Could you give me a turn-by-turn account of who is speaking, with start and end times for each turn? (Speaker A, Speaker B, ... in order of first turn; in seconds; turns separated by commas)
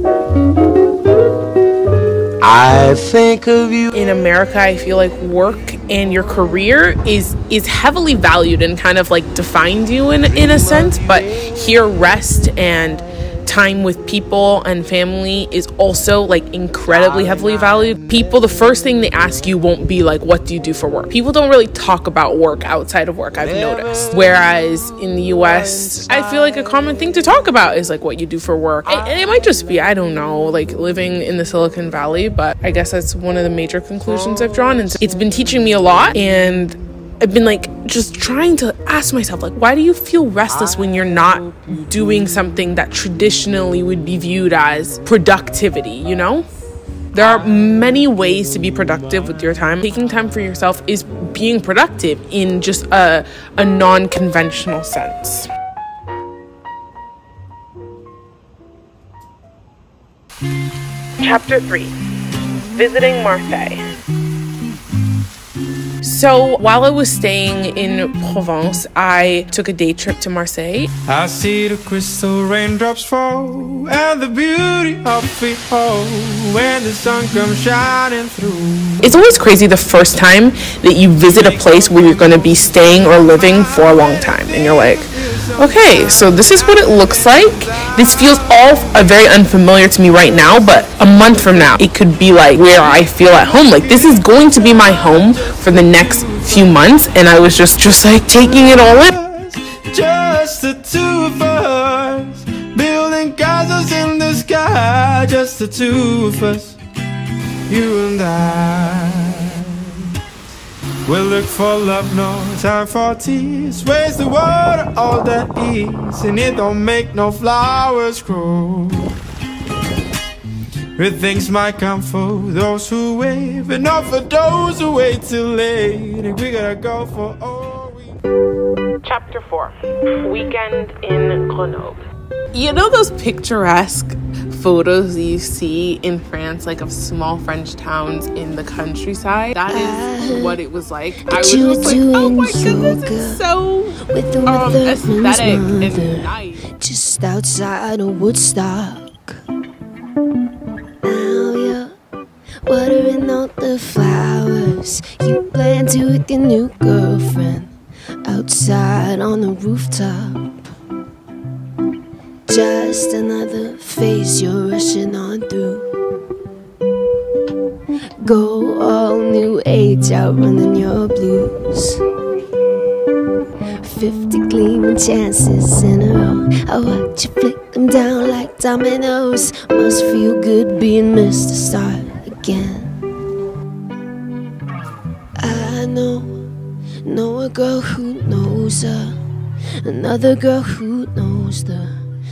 Speaker A: 2.4-4.0, Speaker B: 3.9-46.5, Speaker A: 10.2-11.7, Speaker A: 16.9-18.9, Speaker A: 23.4-27.2, Speaker A: 28.9-29.8, Speaker A: 34.0-35.7, Speaker A: 40.5-42.3, Speaker B: 47.1-55.5, Speaker A: 47.2-49.6, Speaker B: 61.2-61.9, Speaker B: 62.8-63.8, Speaker B: 66.0-70.9, Speaker C: 71.1-79.1, Speaker B: 79.0-85.1, Speaker C: 81.3-89.5, Speaker B: 85.6-99.1, Speaker C: 90.1-91.8, Speaker C: 92.9-96.8, Speaker C: 98.7-106.8, Speaker C: 107.7-110.0, Speaker C: 111.1-119.1, Speaker C: 121.0-128.2, Speaker B: 129.0-146.7, Speaker D: 139.7-140.6, Speaker D: 141.2-143.4, Speaker D: 144.1-146.3, Speaker D: 146.8-149.4, Speaker D: 151.0-151.9, Speaker D: 152.7-157.7, Speaker D: 158.2-160.7, Speaker D: 162.5-165.9, Speaker D: 168.2-172.0, Speaker D: 173.8-182.9, Speaker D: 185.4-186.3, Speaker D: 187.1-189.2, Speaker D: 189.8-192.0